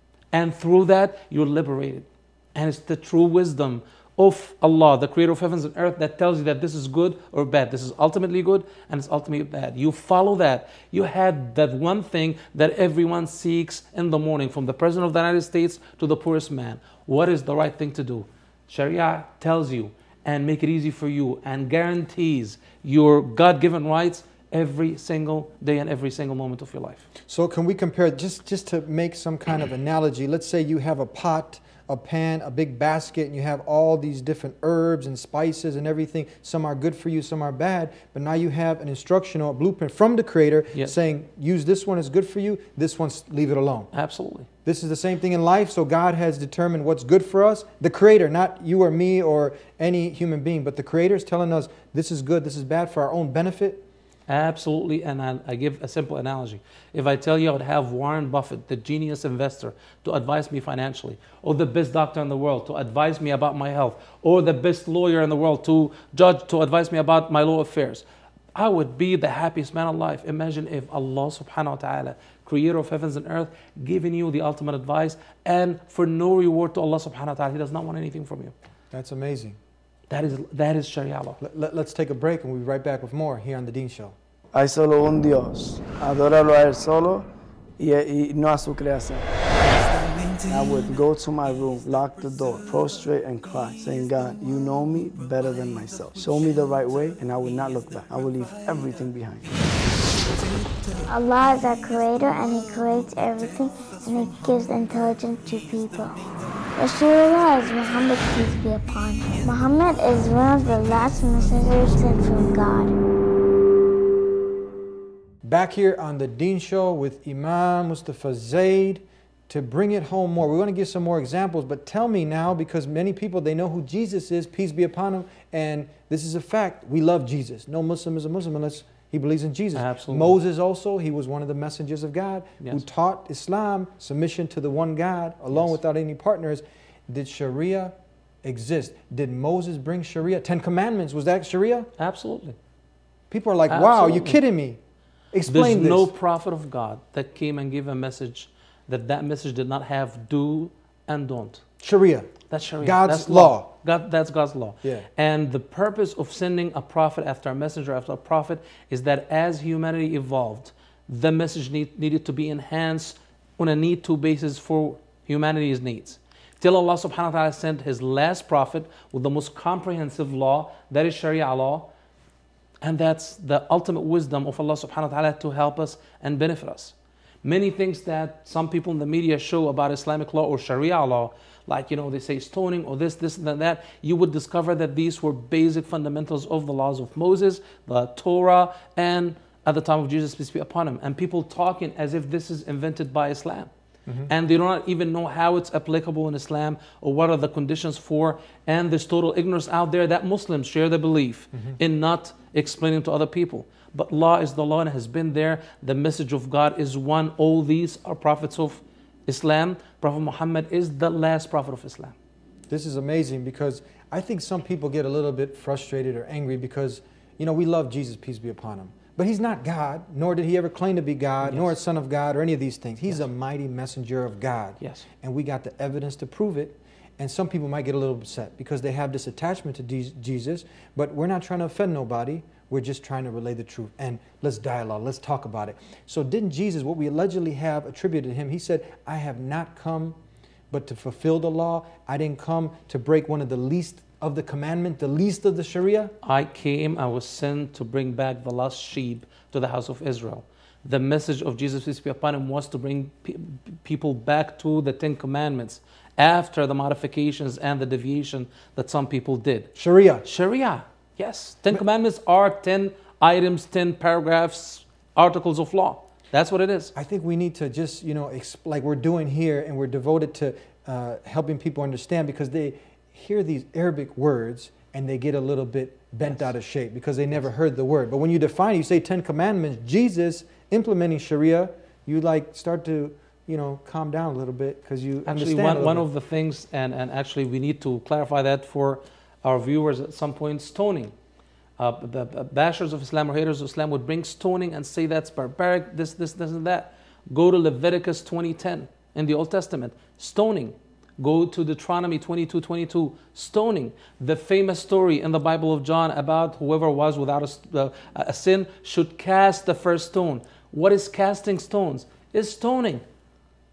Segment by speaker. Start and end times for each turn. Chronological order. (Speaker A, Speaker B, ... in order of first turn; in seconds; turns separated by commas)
Speaker A: 0.3-27.1, Speaker B: 27.3-43.9, Speaker A: 43.9-44.5, Speaker B: 44.6-53.8, Speaker A: 54.3-78.5, Speaker B: 78.9-79.6, Speaker A: 80.1-81.4, Speaker B: 81.4-84.2, Speaker C: 84.5-87.3, Speaker C: 87.8-89.3, Speaker C: 90.5-99.6, Speaker D: 101.1-106.2, Speaker D: 106.8-112.9, Speaker B: 115.4-141.9, Speaker A: 129.7-130.3, Speaker A: 142.0-142.6, Speaker B: 143.3-144.8, Speaker A: 143.7-144.4, Speaker B: 145.3-146.1, Speaker A: 145.5-151.6, Speaker B: 151.8-153.7, Speaker A: 152.5-171.9, Speaker B: 154.8-155.1, Speaker A: 172.8-193.7, Speaker A: 194.3-212.1, Speaker B: 201.5-201.8, Speaker B: 212.7-240.2, Speaker A: 221.4-221.8, Speaker A: 224.8-225.1, Speaker B: 240.7-246.1, Speaker A: 246.2-259.7, Speaker B: 259.7-260.2, Speaker A: 260.2-266.9, Speaker B: 266.9-286.1, Speaker A: 285.2-291.1, Speaker A: 291.8-313.0